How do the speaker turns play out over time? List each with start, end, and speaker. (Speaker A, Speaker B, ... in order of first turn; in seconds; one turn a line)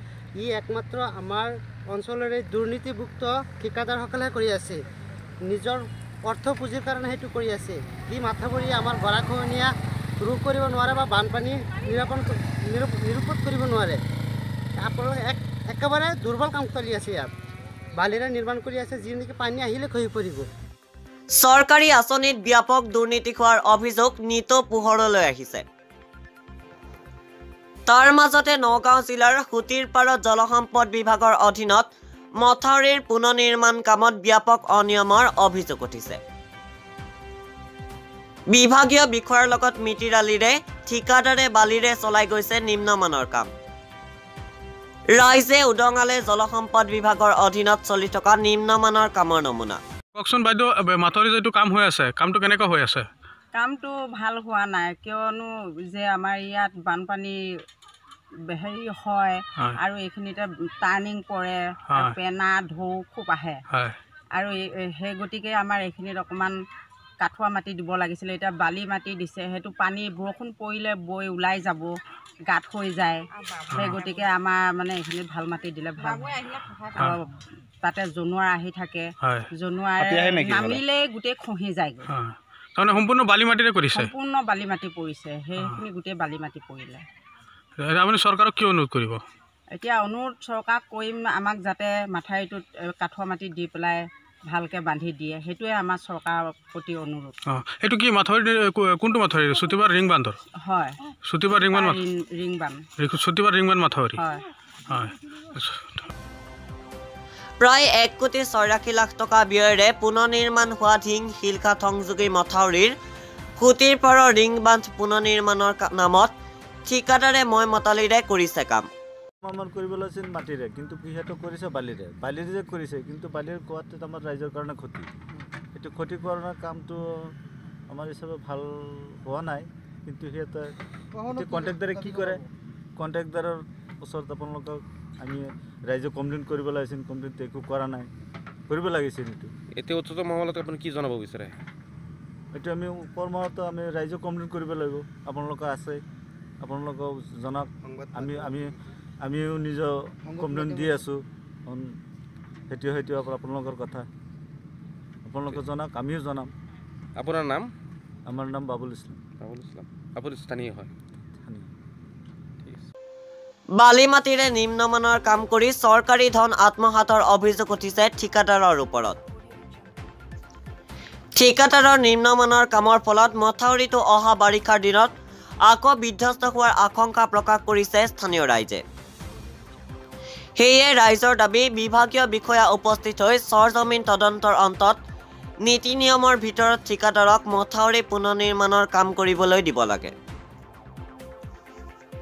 Speaker A: 0.4-4.8
Speaker A: 5.4-14.0
Speaker A: 14.8-17.3
Speaker A: 18.0-20.5
Speaker B: 21.4-25.6
Speaker B: 27.9-36.2
Speaker B: 38.5-43.5
Speaker B: 45.1-49.8
Speaker C: 50.1-53.1
Speaker D: 53.5-57.4
Speaker D: 58.5-63.6
Speaker C: 63.7-64.0
Speaker D: 64.3-66.5
Speaker D: 67.2-71.9
Speaker D: 72.5-77.3
Speaker C: 73.7-74.0
Speaker D: 77.8-82.1
Speaker E: 80.0-80.8
Speaker C: 82.1-84.1
Speaker D: 83.9-87.0
Speaker C: 87.8-89.2
Speaker D: 89.7-97.3
Speaker C: 97.5-100.4
Speaker D: 100.6-102.9
Speaker C: 101.2-102.0
Speaker C: 103.0-104.2
Speaker D: 104.2-104.5
Speaker C: 104.9-106.1
Speaker B: 107.6-113.0
Speaker B: 113.6-116.3
Speaker B: 116.9-118.9
Speaker F: 119.4-125.1
Speaker F: 125.8-127.3
Speaker F: 127.9-130.8
Speaker F: 131.3-132.5
Speaker F: 133.0-138.1
Speaker F: 138.7-139.5
Speaker E: 139.7-141.6
Speaker F: 142.5-146.0
Speaker F: 146.6-152.0
Speaker F: 152.7-154.1
Speaker F: 155.3-156.5
Speaker E: 157.2-157.7
Speaker F: 158.3-159.2
Speaker E: 159.4-160.9
Speaker F: 161.4-161.7
Speaker E: 162.6-162.9
Speaker B: 163.8-169.2
Speaker B: 171.4-175.1
Speaker B: 175.7-178.8
Speaker B: 180.6-185.0
Speaker B: 185.6-190.1